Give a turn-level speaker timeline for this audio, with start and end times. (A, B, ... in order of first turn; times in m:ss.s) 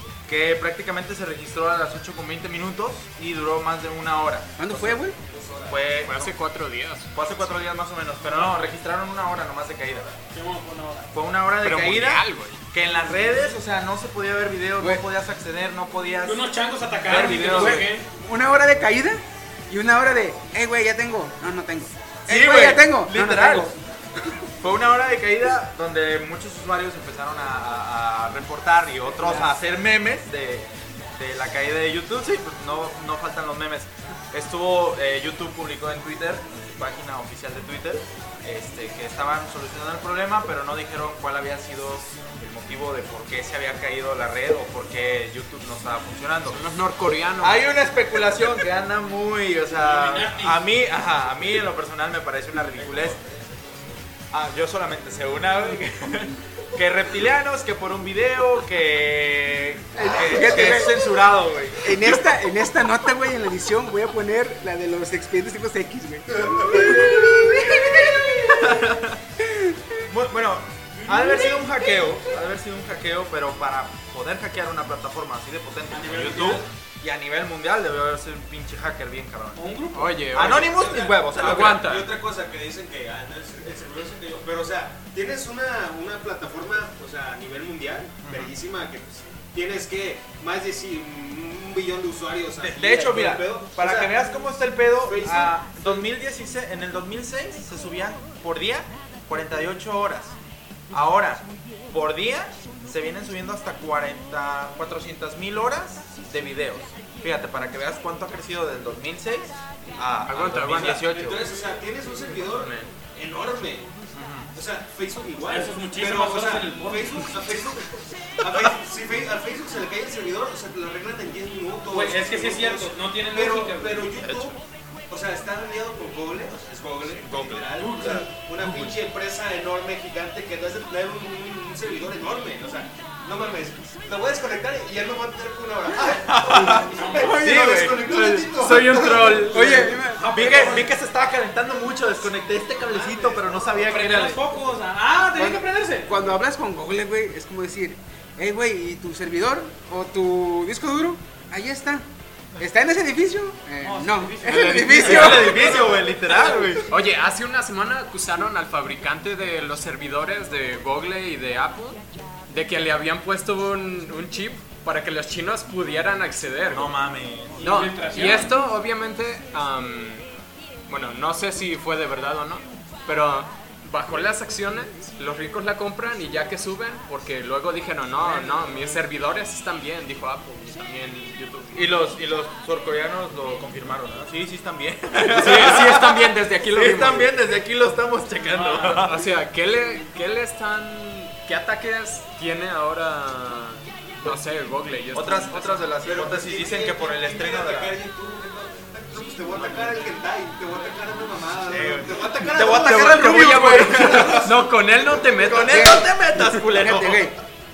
0:00.2-0:05.0 A
0:04.6-0:05.2 B
0:05.2-0:06.0 C
0:05.7-0:06.3 A
0:06.0-0:07.1 D
0:07.1-0:10.1 A
0:08.3-0:08.7 E
0:10.3-0:11.1 E
0:11.1-0:16.5 A
0:11.6-0:12.6 D
0:16.2-0:18.1 E
0:17.0-0:17.9 A
0:17.5-0:24.4 B
0:22.3-0:23.7 A
0:24.6-0:46.6 A
0:29.2-0:29.5 B
0:46.4-0:47.6 D
0:47.4-0:53.2 A
0:49.7-0:50.6 E
0:52.8-0:53.8 C
0:54.3-1:02.3 A
0:59.9-1:01.1 B
1:01.8-1:08.9 B
1:08.5-1:09.2 A
1:09.4-1:09.9 B
1:10.1-1:19.6 A
1:11.0-1:11.6 E
1:15.9-1:16.7 E
1:19.5-1:20.1 E
1:19.9-1:20.8 D
1:20.3-1:21.9 A
1:20.4-1:34.2 C
1:21.3-1:22.1 D
1:28.2-1:28.5 A
1:32.6-1:40.4 A
1:35.0-1:36.0 C
1:40.9-1:51.4 A
1:50.3-1:51.3 D
1:50.7-1:53.9 C
1:52.4-1:52.9 D
1:54.1-1:54.5 A
1:54.5-2:04.6 C
1:55.5-1:57.3 E
2:01.9-2:04.1 E
2:04.2-2:04.6 A
2:05.1-2:19.9 C
2:07.2-2:09.0 A
2:07.8-2:08.3 E
2:16.2-2:24.5 A
2:16.7-2:17.4 E
2:17.2-2:18.0 B
2:18.2-2:19.9 D
2:19.5-2:20.6 B
2:19.8-2:20.9 E
2:22.7-2:23.9 C
2:23.8-2:26.2 E
2:25.4-2:32.0 B
2:32.6-2:35.9 B
2:33.8-2:35.9 E
2:34.5-2:35.5 D
2:34.8-2:36.9 A
2:36.9-2:47.0 D
2:46.7-2:47.8 A
2:47.6-2:48.5 E
2:47.6-2:50.2 D
2:50.9-3:02.0 D
3:01.7-3:09.2 A
3:05.2-3:07.3 D
3:08.4-3:09.0 E
3:08.8-3:15.9 D
3:15.1-3:18.0 A
3:16.0-3:24.5 C
3:21.7-3:24.5 A
3:22.5-3:26.5 D
3:25.4-3:27.3 A
3:25.6-3:26.1 B
3:26.7-3:27.3 B